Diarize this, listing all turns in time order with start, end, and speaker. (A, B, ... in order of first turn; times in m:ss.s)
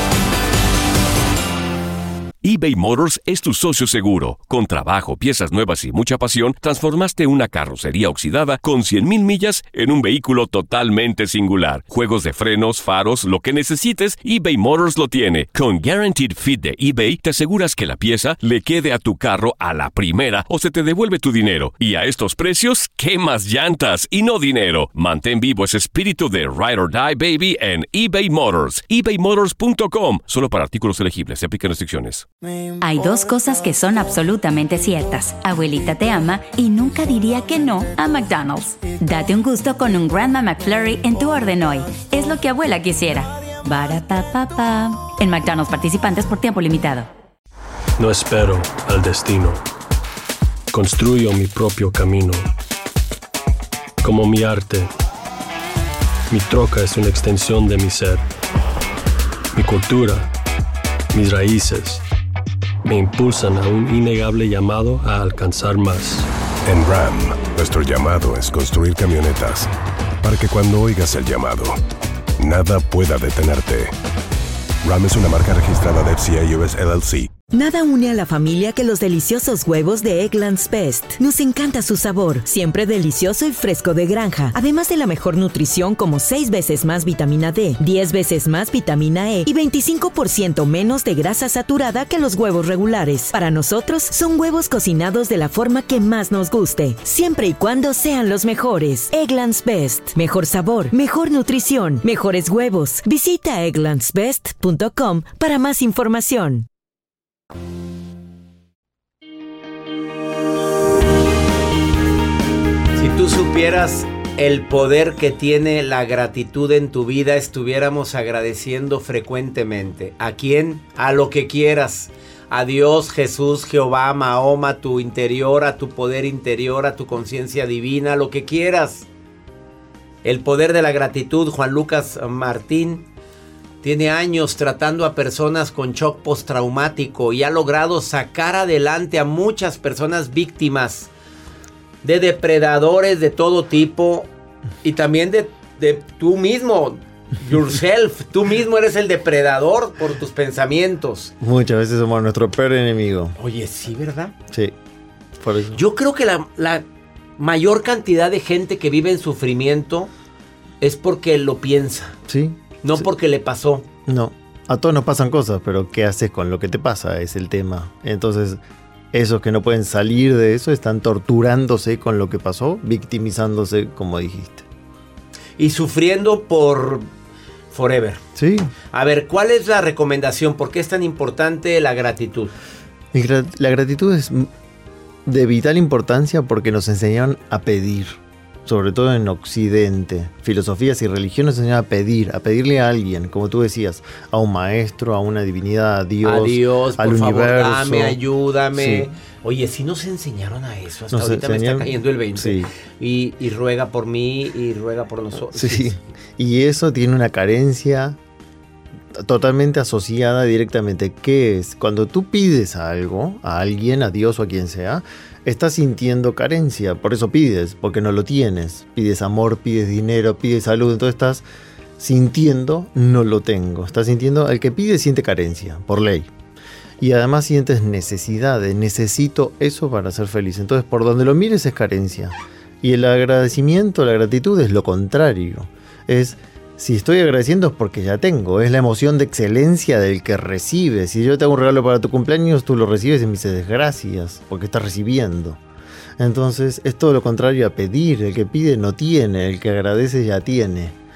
0:02.4-0:32.3 A
0:32.8-0:47.1 B
0:48.0-0:49.6 C
0:50.7-0:52.5 C
0:54.0-0:54.9 C
0:56.3-0:58.2 C
0:59.5-1:00.3 C
1:01.1-1:02.0 C
1:02.8-1:06.3 C
1:06.6-1:09.7 D
1:10.2-1:11.8 D
1:12.4-1:13.9 D
1:14.8-1:17.3 D
1:17.5-1:46.6 E
1:53.0-2:09.1 F
2:10.2-2:13.1 F
2:13.8-2:21.1 F
2:22.0-2:24.3 F
2:24.8-2:31.3 F
2:31.4-2:33.4 G
2:33.4-2:34.4 F
2:35.4-2:35.8 G
2:35.7-2:36.8 F
2:37.4-2:40.1 F
2:40.8-2:42.2 F
2:42.3-2:43.1 G
2:42.8-2:43.9 F
2:44.1-2:48.6 G
2:49.1-2:54.6 G
2:55.6-2:57.1 F
2:57.7-2:58.2 F
2:58.4-2:58.7 G
2:58.9-3:02.5 F
3:03.1-3:04.5 G
3:05.3-3:18.2 G
3:16.2-3:25.9 F
3:18.7-3:19.1 G
3:21.1-3:22.7 G
3:25.5-3:28.2 G
3:29.2-3:41.4 G
3:42.0-3:46.3 G
3:47.0-4:05.6 G
4:06.2-4:10.9 G